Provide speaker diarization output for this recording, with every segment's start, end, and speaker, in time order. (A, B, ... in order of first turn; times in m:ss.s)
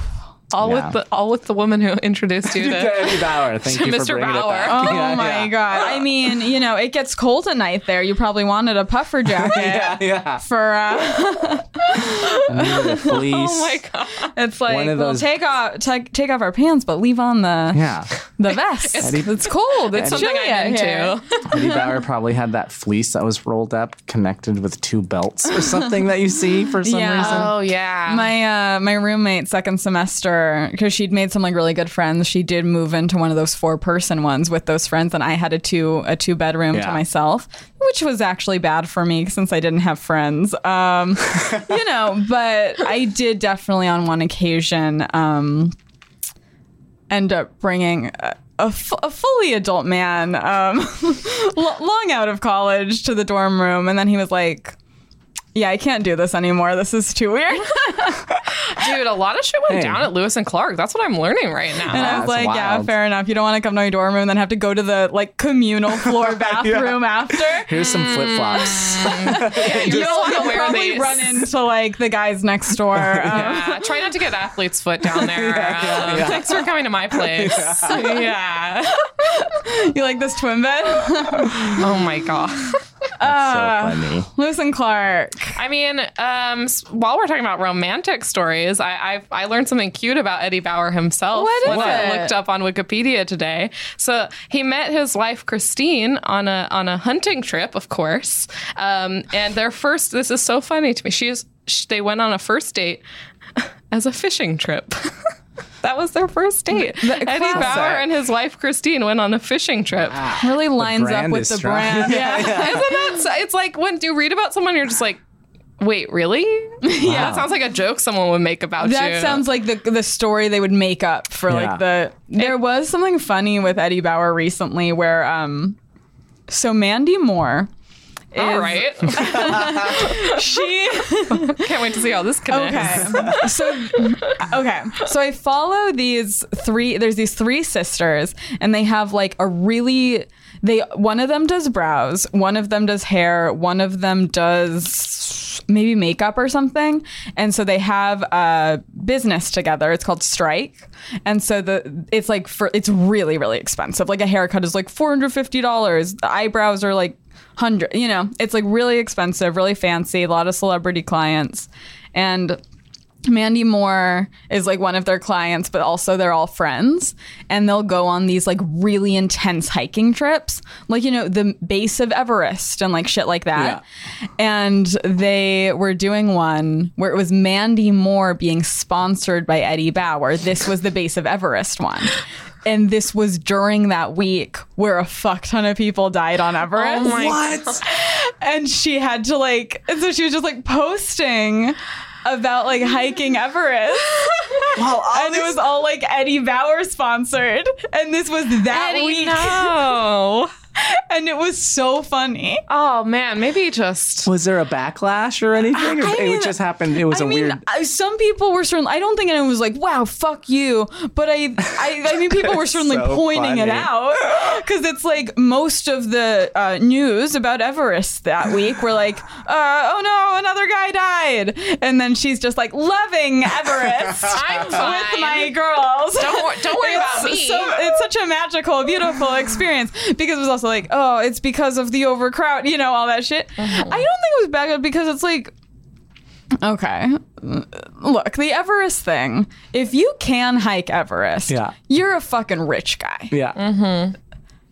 0:00.5-0:05.2 A
0:00.6-0:01.0 B
0:02.5-0:06.0 B
0:04.7-0:13.1 C
0:09.2-0:10.4 B
0:12.5-0:13.8 B
0:13.0-0:14.3 A
0:14.3-0:17.8 C
0:14.7-0:15.3 B
0:17.7-0:18.1 B
0:18.4-0:21.8 C
0:18.8-0:21.4 A
0:19.0-0:19.4 B
0:19.9-0:20.3 B
0:21.5-0:27.5 B
0:26.8-0:27.6 C
0:27.1-0:28.3 A
0:28.1-0:45.7 C
0:36.7-0:37.0 B
0:47.1-0:54.8 C
0:55.5-0:58.2 C
0:58.7-1:02.2 A
0:59.7-1:00.1 B
1:01.9-1:02.9 B
1:01.9-1:07.7 C
1:06.0-1:10.5 B
1:07.9-1:11.4 A
1:09.2-1:13.9 C
1:12.9-1:13.5 B
1:13.3-1:19.0 A
1:15.1-1:18.2 B
1:19.0-1:21.8 C
1:21.7-1:22.8 A
1:23.2-1:25.6 C
1:23.2-1:24.3 B
1:25.6-1:43.0 A
1:31.3-1:32.3 C
1:31.6-1:32.1 B
1:43.6-1:45.2 A
1:45.8-1:50.3 A
1:46.7-1:48.0 C
1:47.6-1:47.9 B
1:50.1-1:52.9 B
1:50.4-1:53.2 C
1:52.0-1:55.2 A
1:55.8-1:59.4 A
1:56.8-1:57.4 C
1:57.0-1:57.5 B
1:58.8-2:05.8 C
2:01.5-2:01.8 B
2:06.5-2:07.7 C
2:08.3-2:11.6 C
2:08.3-2:10.5 A
2:09.2-2:09.9 B
2:11.3-2:14.3 A
2:12.5-2:42.6 C
2:12.8-2:13.4 B
2:43.2-2:53.8 C
2:53.5-2:53.8 B
2:54.4-3:20.0 C
3:06.7-3:07.8 A
3:07.0-3:07.8 B
3:14.8-3:15.6 B
3:18.7-3:20.5 A
3:20.8-3:22.6 C
3:22.7-3:24.3 A
3:24.2-3:27.6 B
3:25.7-3:55.5 C
3:32.1-3:34.5 B
3:44.3-3:45.6 A
3:46.1-3:48.0 A
3:53.6-3:54.0 A
3:56.6-4:03.3 C
4:01.5-4:01.7 B
4:03.3-4:03.6 B
4:03.6-4:04.1 A